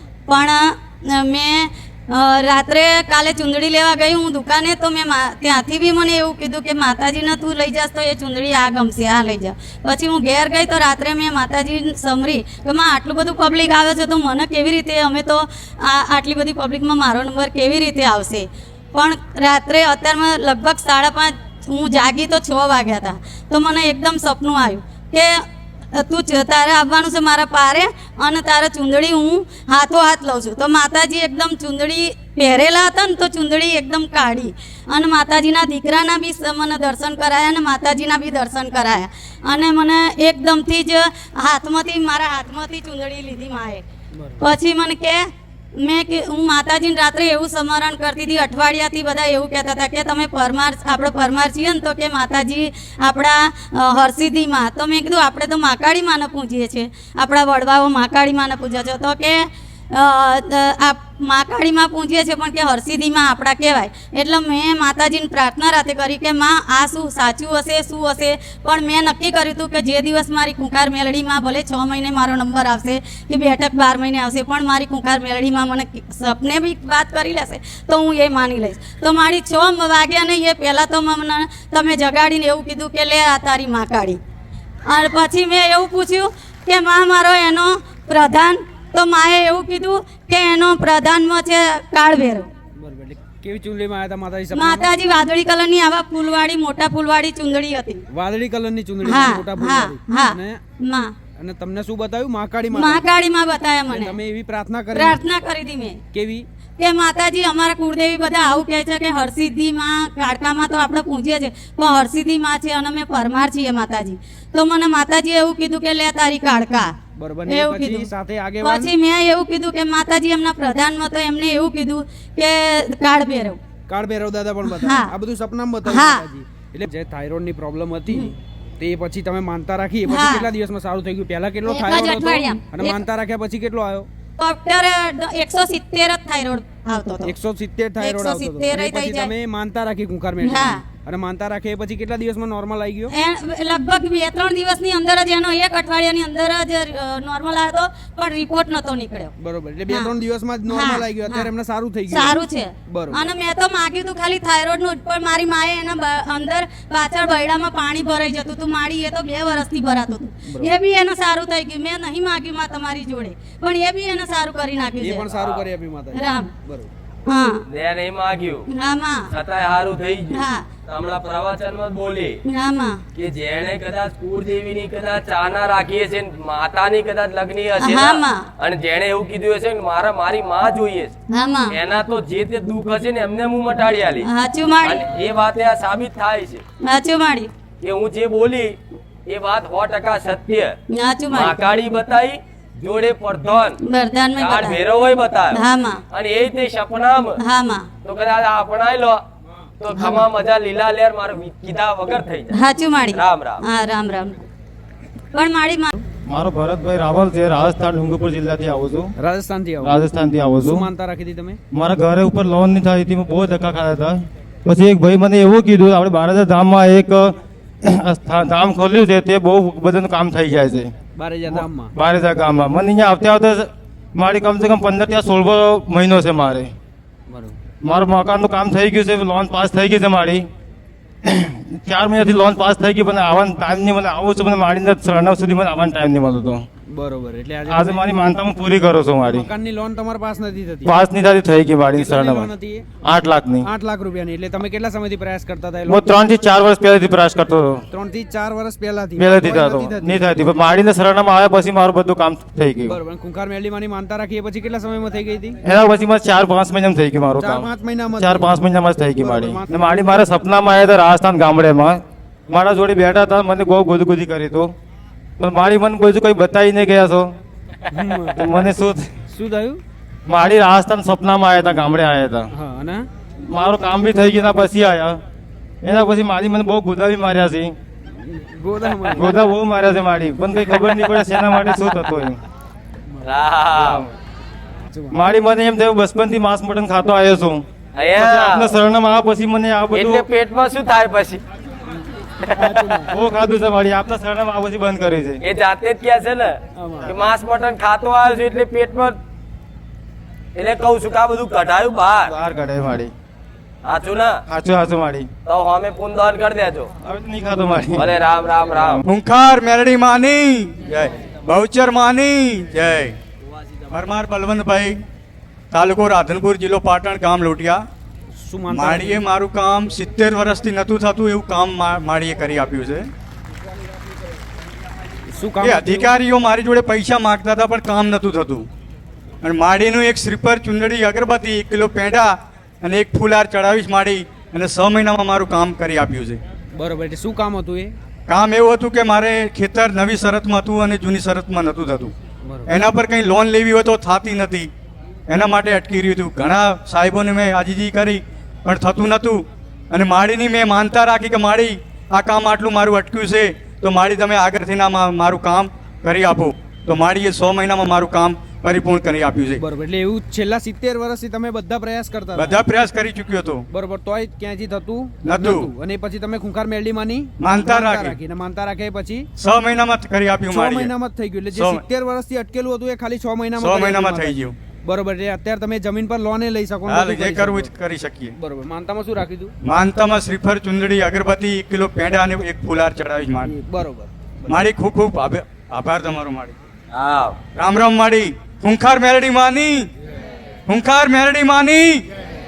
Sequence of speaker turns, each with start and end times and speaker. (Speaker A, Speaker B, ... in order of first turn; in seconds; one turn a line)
Speaker A: 0.3-25.3
Speaker A: 25.9-43.8
Speaker A: 44.4-84.2
Speaker A: 84.9-92.5
Speaker B: 92.8-94.8
Speaker A: 94.5-98.0
Speaker B: 98.1-100.6
Speaker A: 99.0-101.1
Speaker B: 101.4-103.0
Speaker A: 102.7-104.2
Speaker B: 103.9-105.2
Speaker A: 104.9-106.0
Speaker B: 106.1-106.5
Speaker A: 106.8-116.9
Speaker B: 117.2-118.9
Speaker A: 117.5-123.6
Speaker B: 123.9-128.2
Speaker A: 124.7-125.1
Speaker A: 125.8-126.3
Speaker B: 128.8-134.1
Speaker A: 130.0-130.5
Speaker A: 131.6-133.0
Speaker A: 134.4-137.4
Speaker B: 137.2-143.1
Speaker A: 137.9-139.3
Speaker A: 140.4-140.9
Speaker A: 143.1-149.3
Speaker B: 149.4-152.4
Speaker A: 149.9-151.5
Speaker A: 152.1-165.3
Speaker B: 152.9-153.3
Speaker B: 165.0-166.9
Speaker C: 165.2-165.6
Speaker A: 166.1-166.5
Speaker A: 167.3-167.6
Speaker C: 167.7-168.6
Speaker A: 168.7-169.3
Speaker C: 169.3-172.4
Speaker A: 170.3-170.7
Speaker A: 172.4-173.0
Speaker C: 173.1-181.1
Speaker A: 177.8-178.5
Speaker A: 181.3-181.7
Speaker C: 181.7-184.3
Speaker A: 184.2-185.1
Speaker C: 184.8-186.6
Speaker A: 186.8-187.5
Speaker C: 187.8-188.8
Speaker C: 189.3-190.7
Speaker A: 190.9-191.6
Speaker C: 191.3-193.8
Speaker A: 193.8-194.8
Speaker C: 194.3-195.6
Speaker A: 195.5-196.0
Speaker C: 196.1-197.4
Speaker A: 197.4-197.9
Speaker C: 198.0-199.2
Speaker C: 199.8-202.5
Speaker A: 199.9-200.2
Speaker A: 202.5-204.3
Speaker C: 203.1-203.6
Speaker A: 205.3-206.0
Speaker D: 206.3-209.1
Speaker B: 209.2-210.0
Speaker D: 209.8-210.9
Speaker B: 210.6-211.6
Speaker D: 211.7-220.9
Speaker B: 221.2-221.9
Speaker D: 221.5-226.7
Speaker B: 227.3-227.5
Speaker D: 227.8-230.5
Speaker D: 231.2-236.6
Speaker B: 236.9-238.0
Speaker D: 237.7-239.5
Speaker B: 239.2-240.9
Speaker D: 240.8-242.5
Speaker B: 242.0-242.8
Speaker D: 243.0-243.7
Speaker B: 243.6-246.0
Speaker D: 245.9-247.8
Speaker B: 247.9-250.3
Speaker D: 249.2-253.0
Speaker B: 252.9-255.6
Speaker D: 255.6-264.7
Speaker B: 257.4-258.5
Speaker B: 259.2-260.3
Speaker D: 265.4-267.3
Speaker B: 267.9-268.4
Speaker D: 268.3-269.1
Speaker B: 269.3-269.8
Speaker D: 270.3-272.5
Speaker B: 272.5-273.1
Speaker D: 273.4-275.2
Speaker D: 275.8-277.7
Speaker B: 278.2-279.2
Speaker D: 279.1-282.4
Speaker C: 283.2-284.0
Speaker D: 283.7-284.1
Speaker D: 285.1-287.6
Speaker C: 287.9-288.7
Speaker D: 288.1-290.2
Speaker C: 289.9-291.4
Speaker C: 292.5-292.8
Speaker D: 292.6-295.4
Speaker B: 292.7-293.1
Speaker C: 295.4-299.2
Speaker B: 296.8-297.1
Speaker C: 300.5-302.3
Speaker D: 302.2-303.1
Speaker C: 303.8-304.4
Speaker D: 304.5-305.3
Speaker C: 305.4-306.9
Speaker D: 307.0-308.1
Speaker C: 307.9-309.0
Speaker E: 309.1-313.1
Speaker E: 313.9-315.0
Speaker E: 315.7-317.8
Speaker B: 318.4-319.3
Speaker E: 318.7-323.1
Speaker B: 325.3-326.2
Speaker E: 325.6-328.7
Speaker E: 329.4-336.4
Speaker B: 336.7-337.9
Speaker E: 338.3-342.1
Speaker B: 342.4-342.8
Speaker E: 342.7-344.7
Speaker E: 345.3-359.6
Speaker B: 359.6-362.6
Speaker E: 362.3-363.6
Speaker B: 363.7-369.3
Speaker E: 365.2-365.7
Speaker E: 367.4-368.2
Speaker E: 369.4-370.9
Speaker B: 370.5-377.7
Speaker E: 371.5-371.8
Speaker E: 373.6-374.6
Speaker E: 376.9-378.4
Speaker B: 378.4-379.5
Speaker E: 379.6-383.6
Speaker B: 383.4-384.6
Speaker E: 384.5-386.5
Speaker C: 386.9-387.4
Speaker E: 387.5-389.9
Speaker E: 390.7-392.0